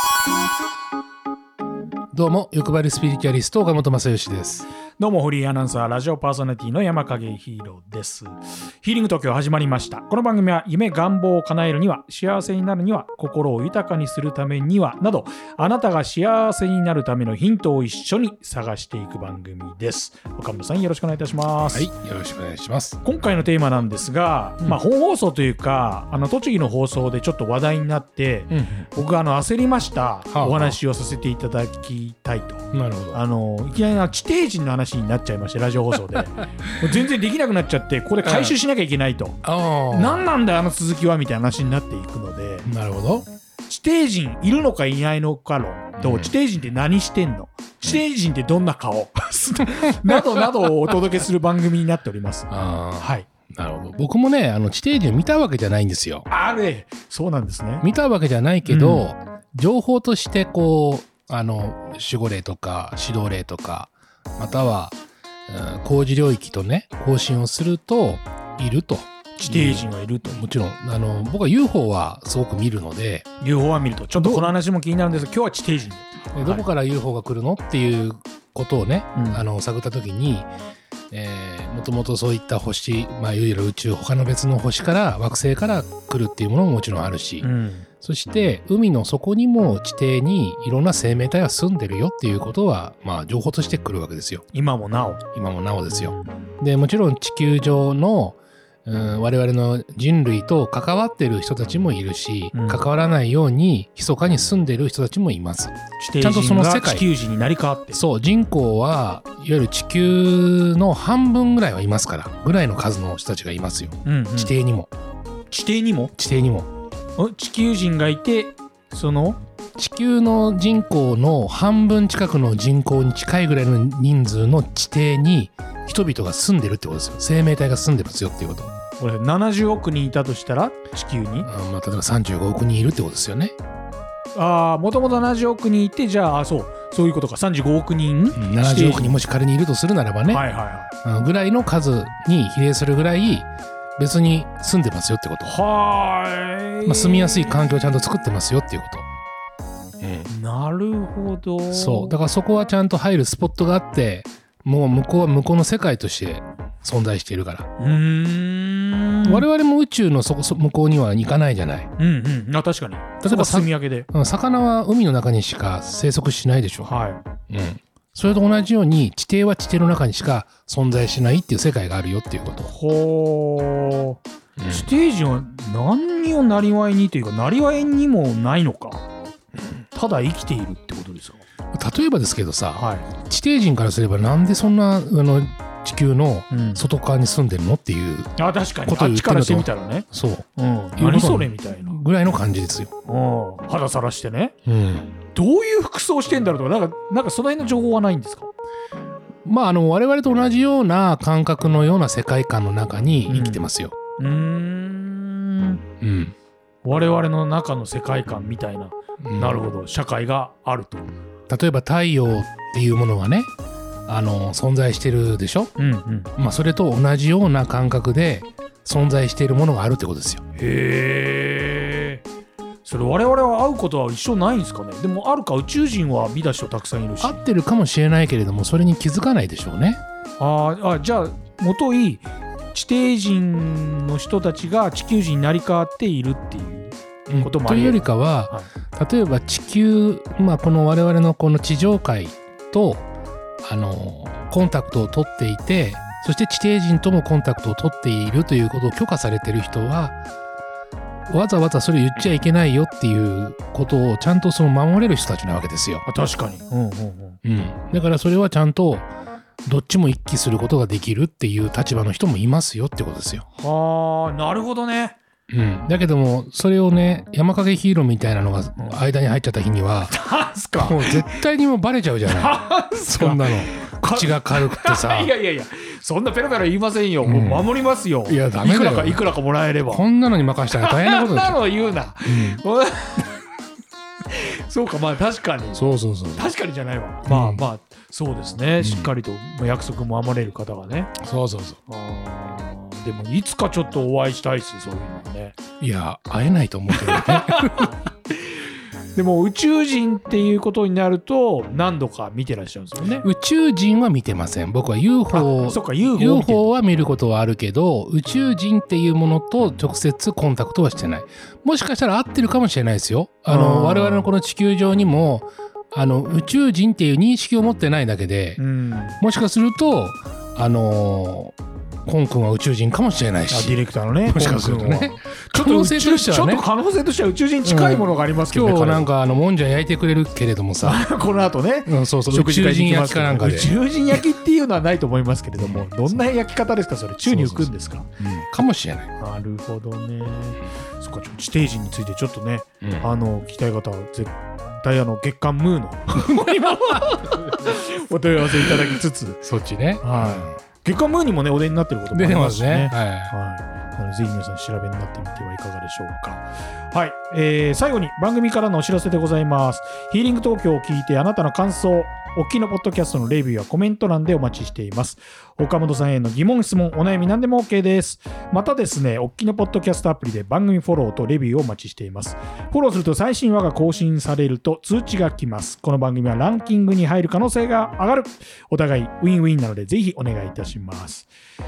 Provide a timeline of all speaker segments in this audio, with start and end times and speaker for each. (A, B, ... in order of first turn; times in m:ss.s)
0:02.1-0:04.7 A
0:05.0-0:21.9 B
0:21.7-0:23.0 A
0:23.0-0:42.7 B
0:28.5-0:28.8 A
0:30.3-0:30.8 A
0:32.7-0:33.2 A
0:38.2-0:38.6 A
0:39.4-0:40.2 A
0:42.6-0:43.2 A
0:43.7-0:53.3 B
0:46.0-0:46.3 A
0:52.5-0:56.2 A
0:56.3-0:57.9 B
0:57.8-1:13.2 A
0:58.6-0:59.1 B
1:09.4-1:10.4 B
1:13.4-1:16.7 B
1:14.2-1:14.5 A
1:16.3-1:20.5 A
1:19.2-1:19.4 B
1:21.1-1:27.5 A
1:27.4-1:27.9 B
1:28.0-1:34.4 A
1:34.5-1:35.2 B
1:35.3-1:47.1 A
1:35.9-1:36.3 B
1:42.5-1:42.8 B
1:46.0-1:48.0 B
1:47.9-1:54.9 A
1:54.0-1:54.5 B
1:55.5-1:56.1 B
1:56.2-1:56.7 A
1:57.2-1:59.4 B
1:59.8-2:08.7 A
2:09.0-2:11.5 B
2:11.4-2:13.6 A
2:14.3-2:19.2 B
2:18.3-2:20.4 A
2:20.3-2:20.9 B
2:21.0-2:25.6 A
2:25.4-2:27.6 B
2:26.8-2:29.0 A
2:30.0-2:30.3 A
2:30.3-2:32.2 B
2:31.7-2:37.7 A
2:37.8-2:39.5 B
2:39.2-2:41.9 A
2:42.0-2:44.1 B
2:43.2-2:46.9 A
2:46.8-2:47.2 B
2:47.5-2:52.7 A
2:52.7-2:59.0 B
2:54.6-2:54.9 A
2:59.9-3:01.4 B
3:01.7-3:08.3 A
3:02.8-3:03.1 B
3:06.5-3:06.8 B
3:08.4-3:12.0 B
3:08.8-3:10.5 A
3:11.0-3:12.9 A
3:13.0-3:14.5 B
3:14.6-3:15.1 A
3:15.3-3:18.5 B
3:19.4-3:23.9 A
3:23.3-3:25.8 B
3:26.0-3:26.3 A
3:26.8-3:31.1 B
3:29.2-3:29.6 A
3:31.5-3:33.5 A
3:34.1-3:35.7 A
3:35.8-3:36.3 B
3:36.4-3:40.4 A
3:40.6-3:42.2 B
3:42.8-3:47.4 B
3:47.2-3:50.0 A
3:50.4-3:58.7 B
3:57.3-4:03.1 A
4:03.6-4:10.2 A
4:11.3-4:16.0 A
4:16.0-4:17.4 B
4:17.4-4:19.1 A
4:19.6-4:23.4 A
4:23.5-4:25.2 B
4:25.5-4:30.2 A
4:30.1-4:31.4 B
4:30.8-4:35.3 A
4:32.3-4:40.0 B
4:37.2-4:37.7 A
4:38.2-4:39.2 A
4:39.8-4:41.6 A
4:40.7-4:43.4 B
4:42.2-4:42.6 A
4:44.3-4:51.2 B
4:45.7-4:46.5 A
4:47.2-4:47.6 A
4:48.8-4:49.1 A
4:51.2-4:51.8 A
4:51.9-4:55.6 B
4:55.8-4:57.9 A
4:57.0-4:57.9 B
4:59.1-5:03.3 B
5:03.2-5:18.6 A
5:05.3-5:06.7 B
5:13.5-5:14.3 B
5:18.6-5:19.2 B
5:19.2-5:21.5 A
5:22.0-5:26.6 A
5:23.5-5:29.1 B
5:27.6-5:31.0 A
5:30.8-5:38.1 B
5:31.8-5:33.7 A
5:35.6-5:36.2 A
5:37.2-5:39.1 A
5:39.2-5:49.4 B
5:42.8-5:43.1 A
5:46.2-5:47.7 A
5:49.4-5:50.5 A
5:50.0-6:21.3 B
5:52.1-5:53.3 A